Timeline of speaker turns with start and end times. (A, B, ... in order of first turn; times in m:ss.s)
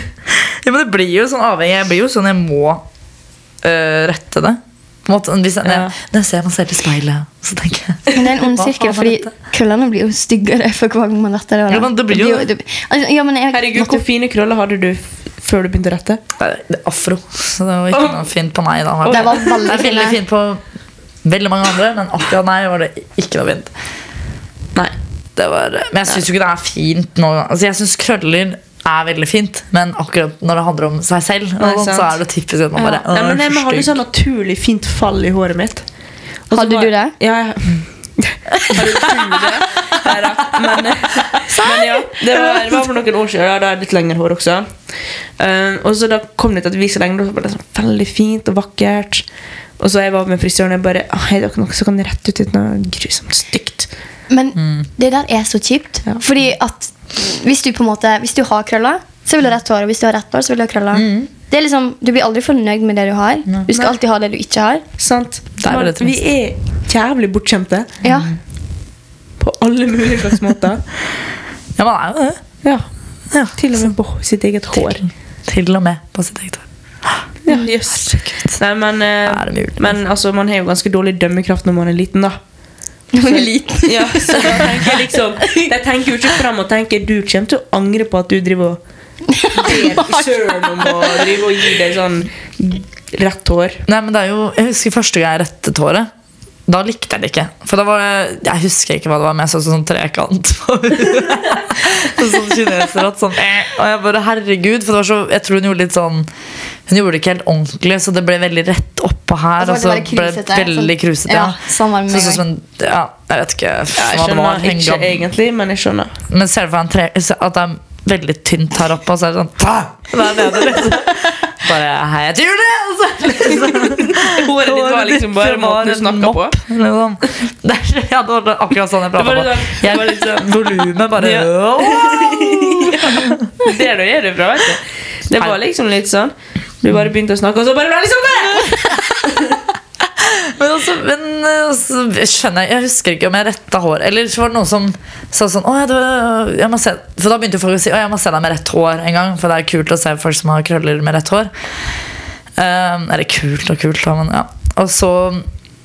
0:00.3-0:02.8 A
0:03.6-0:09.3 A
0:05.6-0:05.9 B
0:08.1-0:14.0 C
0:11.7-0:12.5 A
0:13.5-0:16.2 B
0:16.4-0:20.6 A
0:17.9-0:18.2 B
0:19.0-0:19.6 B
0:19.1-0:20.2 C
0:21.2-0:23.7 A
0:25.4-0:34.0 A
0:31.6-0:32.2 B
0:32.8-0:35.9 B
0:36.5-0:49.2 B
0:36.5-0:37.1 C
0:49.8-0:53.9 B
0:54.3-1:04.8 C
0:54.6-0:54.9 A
1:00.9-1:01.3 A
1:05.0-1:08.0 B
1:05.6-1:06.2 A
1:08.0-1:08.3 C
1:09.4-1:10.8 B
1:11.8-1:12.4 A
1:13.3-1:13.9 A
1:13.5-1:15.0 B
1:14.8-1:17.3 A
1:17.4-1:22.4 B
1:19.3-1:20.0 A
1:23.1-1:25.7 C
1:23.2-1:28.8 B
1:29.3-1:31.3 C
1:29.5-1:33.8 B
1:33.9-1:36.1 A
1:36.7-1:46.3 A
1:46.9-1:55.3 A
1:49.6-1:52.4 C
1:54.0-1:56.1 B
1:56.3-2:13.5 A
2:03.7-2:06.6 B
2:09.2-2:19.6 B
2:18.6-2:18.9 A
2:20.0-2:31.5 A
2:32.6-2:35.4 A